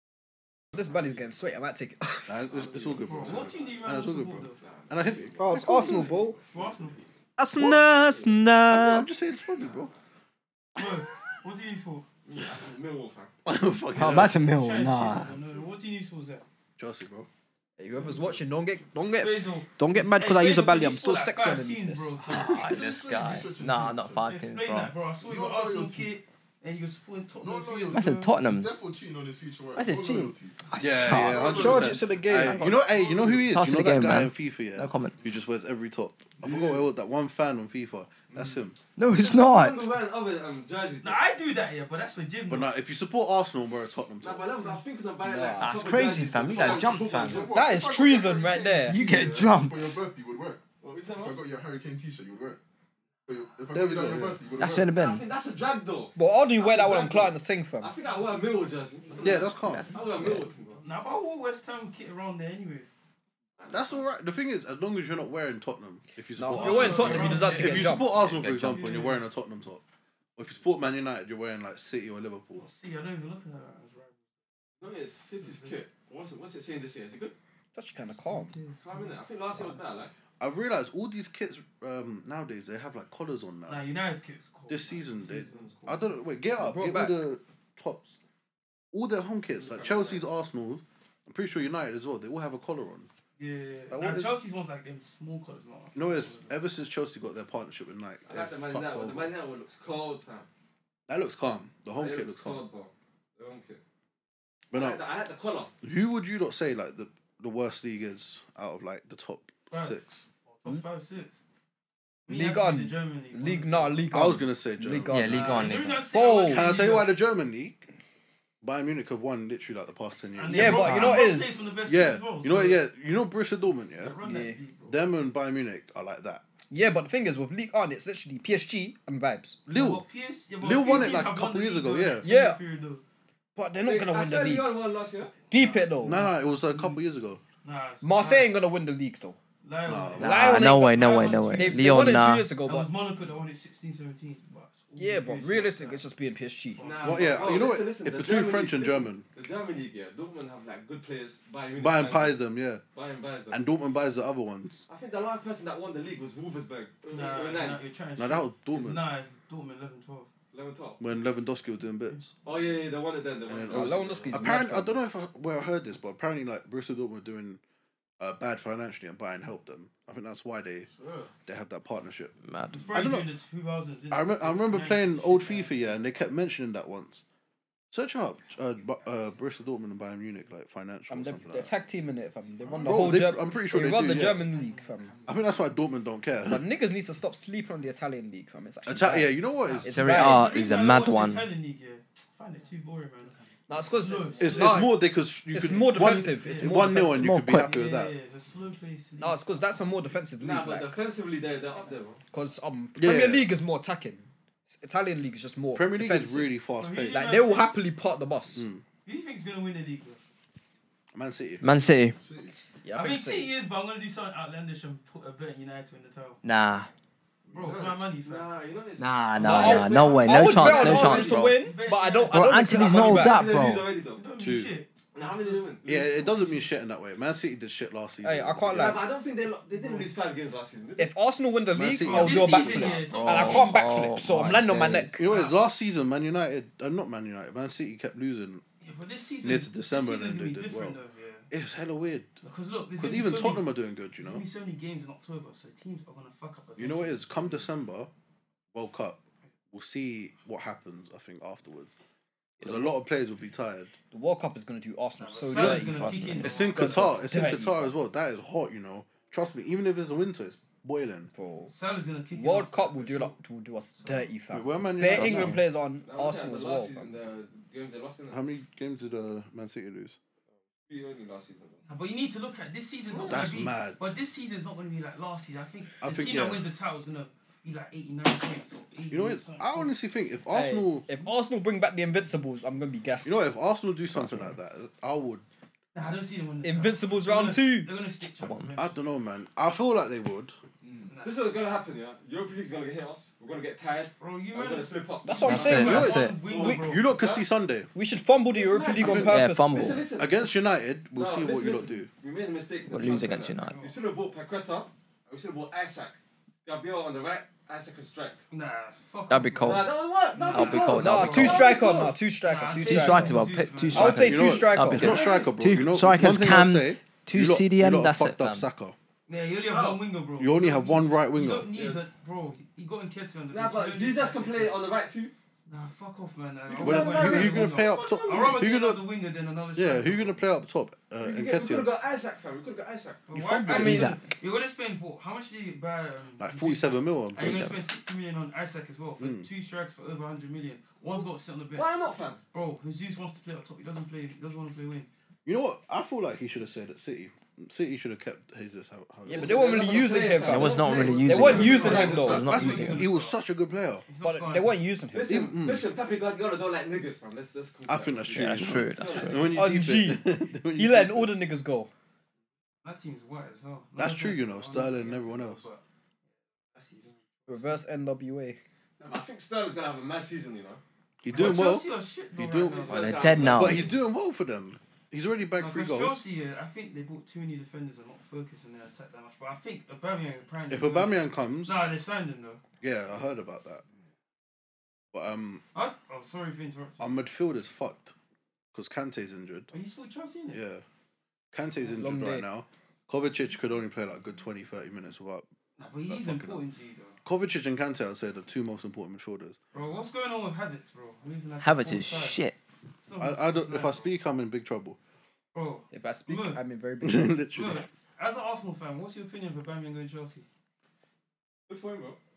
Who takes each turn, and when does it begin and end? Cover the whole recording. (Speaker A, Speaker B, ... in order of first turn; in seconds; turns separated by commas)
Speaker A: 0.7-2.3, Speaker B: 2.3-6.0, Speaker C: 2.5-3.8, Speaker D: 3.0-4.6, Speaker C: 4.6-7.1, Speaker A: 5.4-6.3, Speaker D: 6.5-7.0, Speaker A: 7.4-9.1, Speaker B: 8.7-9.9, Speaker D: 10.8-12.1, Speaker C: 12.2-13.3, Speaker B: 13.4-14.4, Speaker E: 13.9-15.4, Speaker D: 14.4-16.4, Speaker B: 16.8-17.3, Speaker A: 17.8-22.3, Speaker D: 17.9-18.4, Speaker D: 19.1-22.7, Speaker E: 22.2-24.9, Speaker F: 22.3-24.2, Speaker D: 24.2-28.3, Speaker F: 25.2-26.1, Speaker F: 27.4-33.5, Speaker E: 27.9-28.7, Speaker E: 29.8-35.2, Speaker B: 30.8-38.8, Speaker A: 31.4-32.6, Speaker F: 36.4-36.9, Speaker F: 38.3-38.6, Speaker E: 39.0-39.9, Speaker C: 39.1-41.2, Speaker D: 41.0-42.7, Speaker B: 42.5-44.5, Speaker C: 44.2-47.5, Speaker A: 45.2-45.8, Speaker E: 45.3-47.5, Speaker F: 46.5-50.6, Speaker A: 47.5-49.0, Speaker E: 48.9-50.0, Speaker C: 50.8-51.4, Speaker F: 51.1-52.6, Speaker F: 53.3-54.9, Speaker B: 53.7-54.4, Speaker E: 54.6-55.2, Speaker C: 54.8-60.8, Speaker A: 56.1-57.9, Speaker D: 59.1-59.4, Speaker B: 59.2-59.9, Speaker E: 59.6-60.5, Speaker D: 60.0-62.9, Speaker C: 63.6-64.0, Speaker B: 63.7-69.8, Speaker A: 66.4-68.1, Speaker D: 66.5-69.2, Speaker B: 70.3-72.7, Speaker D: 72.5-74.2, Speaker C: 74.8-77.3, Speaker D: 75.4-75.8, Speaker A: 77.7-78.5, Speaker D: 78.3-79.2, Speaker C: 78.9-80.1, Speaker B: 80.4-83.8, Speaker D: 83.7-86.1, Speaker B: 84.7-88.2, Speaker A: 86.6-87.2, Speaker B: 88.9-93.1, Speaker C: 89.6-90.2, Speaker D: 93.4-96.6, Speaker B: 93.9-94.3, Speaker B: 95.9-99.3, Speaker C: 98.3-100.5, Speaker B: 101.1-102.6, Speaker C: 101.9-103.8, Speaker B: 104.7-105.0, Speaker C: 104.7-105.7, Speaker B: 105.8-110.2, Speaker D: 109.7-110.0, Speaker D: 110.5-111.4, Speaker D: 112.2-114.1, Speaker A: 112.3-116.7, Speaker B: 114.1-115.2, Speaker E: 115.0-116.1, Speaker D: 115.3-117.1, Speaker B: 116.5-117.8, Speaker B: 118.6-121.0, Speaker D: 120.4-122.9, Speaker A: 120.5-121.7, Speaker E: 120.7-121.3, Speaker B: 121.8-124.2, Speaker D: 124.0-125.0, Speaker A: 124.2-124.6, Speaker B: 124.9-126.4, Speaker A: 126.7-129.6, Speaker B: 129.7-130.0, Speaker D: 129.7-133.0, Speaker B: 130.6-132.2, Speaker A: 132.2-132.6, Speaker A: 133.5-134.8, Speaker C: 133.8-135.3, Speaker A: 135.5-136.2, Speaker D: 135.5-137.0, Speaker B: 136.0-137.4, Speaker D: 137.6-138.5, Speaker A: 138.0-139.4, Speaker D: 139.6-146.0, Speaker B: 139.8-140.5, Speaker E: 140.2-142.5, Speaker A: 140.2-140.9, Speaker A: 141.5-142.9, Speaker A: 144.9-146.8, Speaker D: 146.7-147.6, Speaker C: 146.8-152.4, Speaker B: 147.0-149.2, Speaker B: 151.8-152.8, Speaker C: 152.9-153.7, Speaker B: 153.5-154.8, Speaker C: 154.9-157.8, Speaker D: 157.1-160.3, Speaker B: 158.2-159.0, Speaker C: 160.5-161.0, Speaker B: 161.0-162.3, Speaker C: 162.4-164.5, Speaker B: 163.5-167.6, Speaker A: 163.7-165.0, Speaker B: 168.2-170.9, Speaker F: 170.9-171.3, Speaker B: 171.4-172.4, Speaker E: 172.4-173.0, Speaker D: 172.7-175.8, Speaker B: 172.9-173.3, Speaker B: 174.1-177.2, Speaker B: 177.9-181.7, Speaker A: 181.1-185.1, Speaker F: 182.6-183.3, Speaker B: 182.8-184.4, Speaker D: 184.2-185.5, Speaker B: 185.2-186.6, Speaker A: 186.4-190.5, Speaker B: 188.8-189.9, Speaker D: 189.6-194.9, Speaker E: 189.8-191.5, Speaker A: 193.7-197.3, Speaker B: 194.3-198.1, Speaker D: 195.6-199.4, Speaker E: 197.1-197.8, Speaker A: 199.2-200.9, Speaker C: 200.4-202.2, Speaker A: 202.3-208.6, Speaker B: 202.9-203.5, Speaker B: 205.7-207.3, Speaker D: 206.8-207.8, Speaker B: 208.6-208.8, Speaker D: 209.0-210.2, Speaker B: 211.1-211.7, Speaker E: 211.6-212.2, Speaker F: 212.2-212.5, Speaker A: 212.8-213.5, Speaker D: 212.9-216.4, Speaker E: 216.4-216.9, Speaker F: 217.5-218.1, Speaker D: 217.5-218.5, Speaker C: 218.2-221.4, Speaker E: 219.0-221.6, Speaker A: 219.4-223.4, Speaker D: 220.6-223.1, Speaker E: 222.3-223.9, Speaker C: 222.8-224.2, Speaker D: 224.0-226.7, Speaker B: 224.4-224.7, Speaker C: 225.1-225.8, Speaker B: 225.8-228.9, Speaker A: 228.2-229.0, Speaker C: 228.7-231.1, Speaker D: 229.8-230.1, Speaker A: 231.0-235.2, Speaker B: 231.7-233.2, Speaker D: 232.1-233.9, Speaker E: 233.0-235.3, Speaker B: 235.2-238.6, Speaker D: 235.2-235.6, Speaker D: 238.8-241.5, Speaker B: 239.4-241.0, Speaker B: 241.5-242.3, Speaker D: 242.4-247.5, Speaker B: 243.0-244.4, Speaker B: 246.8-248.1, Speaker B: 248.7-251.9, Speaker B: 252.6-253.9, Speaker A: 254.1-257.7, Speaker D: 255.2-257.9, Speaker E: 255.5-256.7, Speaker B: 256.4-261.3, Speaker A: 261.3-261.7, Speaker D: 261.7-263.4, Speaker A: 262.3-267.1, Speaker D: 264.0-264.3, Speaker B: 264.5-265.6, Speaker E: 265.0-265.6, Speaker C: 266.0-268.4, Speaker B: 268.3-270.2, Speaker C: 270.9-271.8, Speaker D: 271.9-279.9, Speaker C: 273.1-273.4, Speaker B: 273.2-274.1, Speaker B: 276.0-276.7, Speaker B: 279.1-281.1, Speaker A: 280.5-283.4, Speaker B: 283.2-285.4, Speaker A: 284.1-284.4, Speaker D: 285.9-289.0, Speaker A: 286.6-287.9, Speaker E: 288.4-288.7, Speaker B: 288.7-290.5, Speaker D: 291.1-291.5, Speaker C: 291.2-297.4, Speaker D: 294.2-297.2, Speaker A: 295.2-296.7, Speaker E: 295.5-296.4, Speaker B: 295.8-297.9, Speaker A: 297.9-299.9, Speaker C: 298.5-300.6, Speaker B: 299.0-299.4, Speaker E: 299.2-300.1, Speaker B: 300.2-302.1, Speaker C: 301.1-308.4, Speaker E: 302.9-303.8, Speaker D: 303.6-304.0, Speaker D: 308.5-314.4, Speaker E: 309.3-309.9, Speaker C: 309.6-312.1, Speaker E: 310.5-311.7, Speaker A: 310.9-313.4, Speaker E: 312.8-318.6, Speaker A: 313.9-315.1, Speaker B: 314.1-318.9, Speaker C: 314.9-315.5, Speaker D: 319.3-324.8, Speaker C: 319.7-320.0, Speaker B: 320.4-321.7, Speaker C: 321.7-322.0, Speaker C: 323.5-325.3, Speaker D: 325.7-330.4, Speaker C: 326.7-328.6, Speaker B: 326.8-329.0, Speaker B: 329.7-331.9, Speaker C: 331.2-333.2, Speaker D: 333.3-341.9, Speaker B: 333.4-334.2, Speaker E: 333.6-334.2, Speaker A: 333.7-334.2, Speaker B: 336.4-337.7, Speaker E: 337.4-337.9, Speaker B: 339.2-339.5, Speaker C: 341.0-342.4, Speaker D: 342.5-345.1, Speaker B: 345.4-349.8, Speaker A: 349.2-352.4, Speaker C: 349.3-352.4, Speaker E: 350.4-353.1, Speaker D: 351.3-353.4, Speaker B: 351.4-354.0, Speaker D: 354.1-354.9, Speaker A: 354.2-355.6, Speaker C: 355.1-359.5, Speaker B: 355.3-355.9, Speaker B: 357.9-361.3, Speaker E: 358.3-359.6, Speaker A: 359.5-361.9, Speaker D: 362.8-365.8, Speaker B: 364.0-365.6, Speaker D: 366.7-367.5, Speaker A: 367.5-368.6, Speaker C: 369.0-370.8, Speaker B: 371.2-373.0, Speaker D: 371.3-373.6, Speaker C: 372.7-373.9, Speaker E: 372.9-373.9, Speaker B: 373.5-376.2, Speaker D: 375.6-382.6, Speaker B: 380.7-381.8, Speaker B: 382.8-383.8, Speaker B: 385.1-385.6, Speaker D: 385.7-387.2, Speaker B: 387.0-388.1, Speaker B: 388.7-389.7, Speaker D: 389.7-390.6, Speaker B: 390.5-390.8, Speaker B: 391.5-395.4, Speaker A: 391.9-392.5, Speaker D: 395.8-397.2, Speaker B: 396.1-396.6, Speaker B: 397.2-399.6, Speaker D: 399.7-402.4, Speaker E: 401.6-402.6, Speaker D: 403.0-404.1, Speaker B: 403.2-405.0, Speaker D: 405.5-406.6, Speaker A: 405.9-407.4, Speaker B: 407.0-407.9, Speaker D: 407.5-410.4, Speaker C: 411.7-412.2